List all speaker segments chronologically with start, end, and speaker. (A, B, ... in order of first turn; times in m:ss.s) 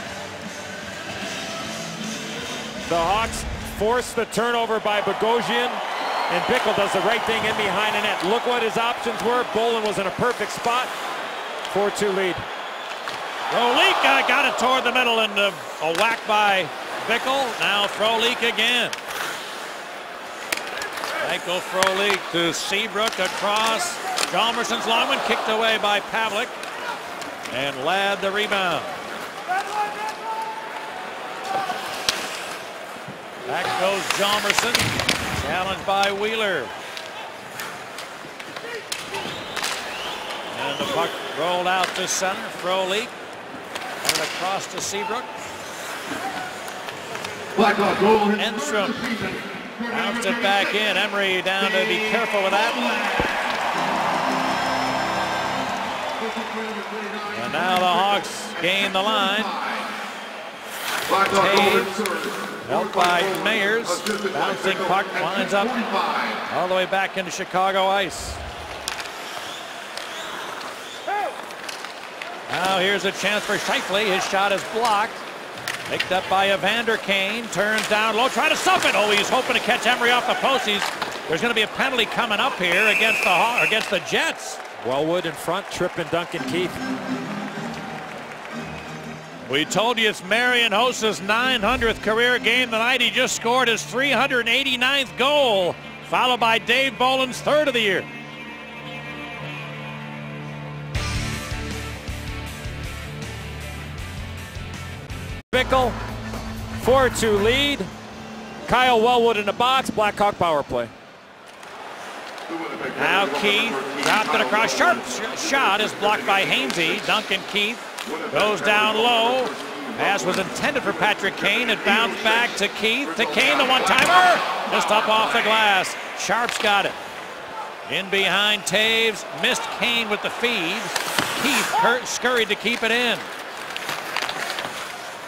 0:02.9-0:10.9 A
0:11.7-0:12.5 A
0:13.5-0:19.0 B
0:21.2-0:26.6 B
0:27.5-0:29.0 B
0:33.5-0:36.7 B
0:40.5-0:43.1 B
0:44.0-0:45.3 B
0:47.6-0:50.6 C
0:48.4-0:49.1 B
0:49.9-0:53.0 B
0:56.2-0:59.9 C
0:57.3-0:59.6 B
1:01.1-1:06.4 C
1:01.3-1:02.0 B
1:02.6-1:05.8 B
1:06.5-1:08.4 B
1:12.5-1:15.2 B
1:15.9-1:24.6 B
1:24.8-1:26.8 A
1:29.4-1:38.1 B
1:45.5-1:46.0 A
1:46.8-1:47.9 A
1:48.6-1:50.9 A
1:52.5-1:57.1 C
1:53.0-2:07.0 B
1:58.0-2:04.1 C
2:07.9-2:13.3 B